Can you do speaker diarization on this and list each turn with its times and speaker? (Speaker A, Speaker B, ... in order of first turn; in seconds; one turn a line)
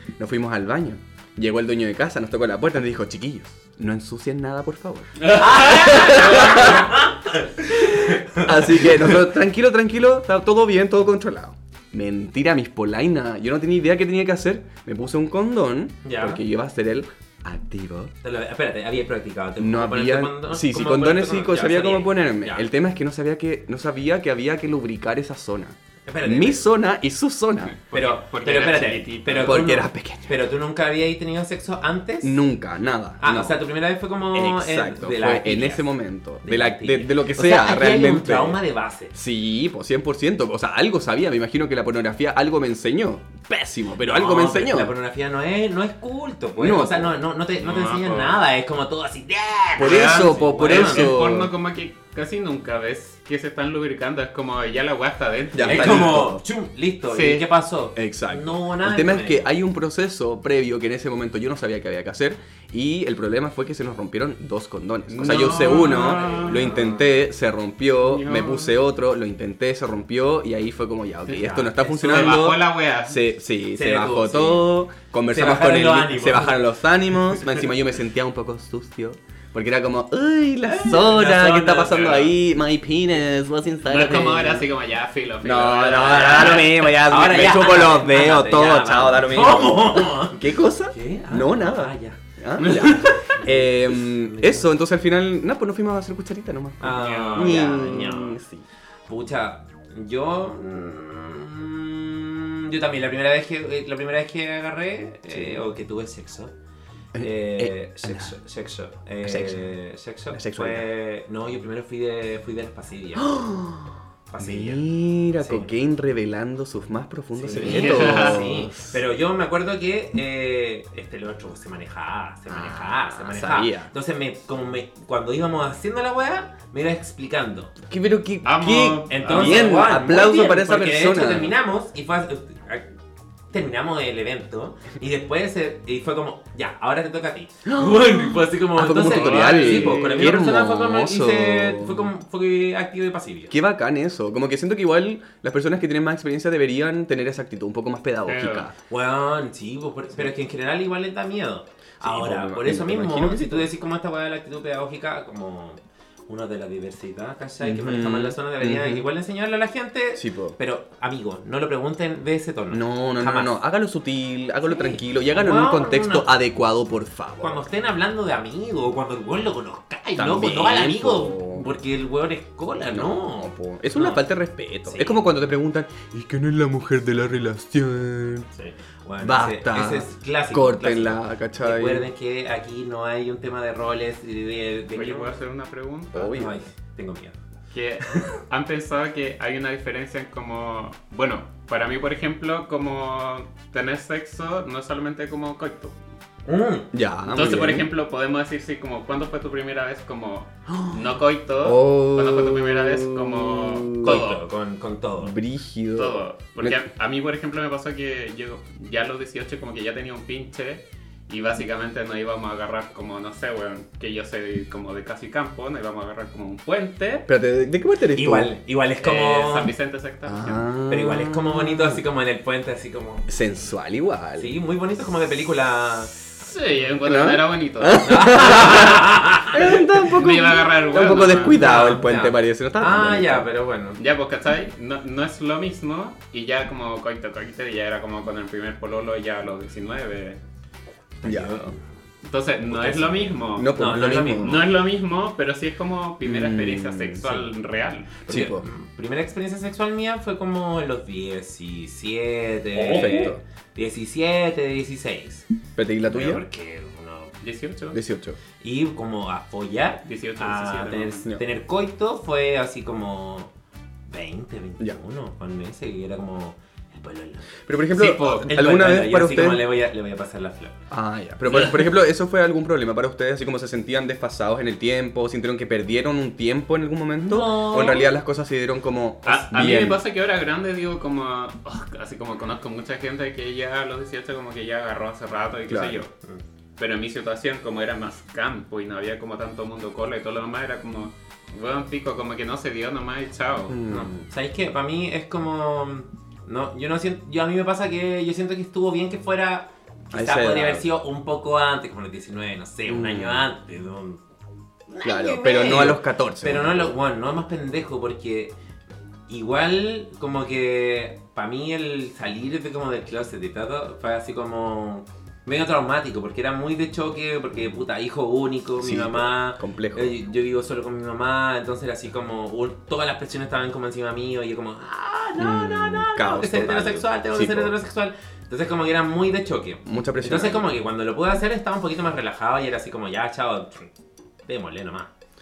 Speaker A: 0.2-6.9
Speaker B: 5.3-6.8
Speaker C: 5.3-9.2
Speaker A: 7.7-18.1
Speaker C: 16.0-16.4
Speaker C: 18.2-22.7
Speaker A: 19.6-27.8
Speaker C: 26.1-26.7
Speaker B: 27.8-29.6
Speaker C: 27.9-32.4
Speaker A: 29.4-30.4
Speaker A: 32.2-33.6
Speaker C: 33.2-35.9
Speaker A: 34.3-38.6
Speaker C: 36.4-39.1
Speaker A: 39.1-44.9
Speaker C: 44.0-51.1
Speaker A: 46.6-47.1
Speaker B: 47.6-48.4
Speaker A: 49.8-51.5
Speaker B: 49.8-56.2
Speaker A: 55.5-56.4
Speaker C: 55.6-59.5
Speaker B: 57.1-57.5
Speaker A: 58.0-84.7
Speaker B: 65.1-66.8
Speaker C: 65.5-67.0
Speaker B: 68.0-68.7
Speaker B: 71.3-73.2
Speaker C: 71.3-72.4
Speaker C: 73.7-74.7
Speaker C: 75.3-76.6
Speaker C: 80.7-82.1
Speaker B: 81.9-82.3
Speaker B: 83.8-86.8
Speaker A: 85.4-98.6
Speaker C: 86.2-94.7
Speaker C: 96.8-98.4
Speaker B: 97.0-97.6
Speaker C: 99.1-106.5
Speaker A: 105.3-105.6
Speaker A: 107.1-108.3
Speaker C: 107.2-113.4
Speaker A: 109.2-109.7
Speaker A: 110.3-110.9
Speaker A: 113.2-119.0
Speaker C: 114.3-115.7
Speaker C: 117.3-127.7
Speaker B: 117.5-118.5
Speaker A: 122.5-123.9
Speaker A: 127.8-131.5
Speaker B: 128.4-129.8
Speaker C: 129.1-132.9
Speaker C: 133.5-143.5
Speaker A: 137.7-142.1
Speaker B: 138.9-140.4
Speaker A: 143.5-148.7
Speaker B: 148.2-148.7
Speaker C: 148.9-163.5
Speaker A: 152.0-153.7
Speaker A: 157.6-159.1
Speaker A: 160.1-160.6
Speaker A: 162.7-167.7
Speaker C: 164.6-166.3
Speaker C: 167.4-174.2
Speaker A: 170.2-171.7
Speaker A: 172.9-178.5
Speaker C: 174.8-175.2
Speaker C: 178.5-185.4
Speaker A: 179.2-182.1
Speaker B: 184.9-186.3
Speaker A: 186.1-186.5
Speaker C: 186.2-187.3
Speaker B: 187.7-196.0
Speaker C: 196.4-196.9
Speaker A: 196.9-197.9
Speaker B: 197.3-204.4
Speaker A: 200.7-201.1
Speaker A: 201.6-204.2
Speaker C: 204.0-205.3
Speaker A: 205.2-206.8
Speaker B: 206.0-217.3
Speaker A: 217.3-218.5
Speaker C: 218.1-219.7
Speaker B: 219.0-220.7
Speaker A: 220.2-222.0
Speaker C: 220.9-223.3
Speaker A: 223.3-224.5
Speaker C: 224.4-226.1
Speaker B: 226.4-228.8
Speaker A: 227.0-233.5
Speaker C: 228.0-229.7
Speaker B: 230.0-231.8
Speaker C: 231.5-234.0
Speaker B: 234.0-240.4
Speaker C: 241.2-241.8
Speaker A: 241.2-241.6
Speaker B: 242.2-243.7
Speaker C: 242.7-244.6
Speaker A: 243.5-244.6
Speaker B: 244.4-248.2
Speaker A: 246.2-247.4
Speaker C: 248.2-255.5
Speaker A: 248.3-248.6
Speaker A: 252.7-253.4
Speaker B: 252.9-253.2
Speaker A: 255.8-256.4
Speaker C: 256.1-257.3
Speaker B: 257.4-258.0
Speaker A: 257.9-258.4
Speaker C: 258.6-263.5
Speaker B: 260.1-261.2
Speaker C: 264.1-270.8
Speaker A: 267.6-269.6
Speaker B: 268.0-268.4
Speaker A: 270.9-280.0
Speaker C: 277.2-278.1
Speaker B: 279.2-286.1
Speaker A: 285.7-286.0
Speaker B: 286.8-293.8
Speaker A: 293.7-294.3
Speaker C: 293.9-304.2
Speaker A: 300.1-300.9
Speaker A: 302.9-303.5
Speaker C: 304.9-308.5
Speaker A: 305.0-306.9
Speaker C: 309.3-333.9
Speaker A: 318.8-320.1
Speaker A: 325.4-327.7
Speaker A: 329.8-330.7
Speaker C: 334.4-335.1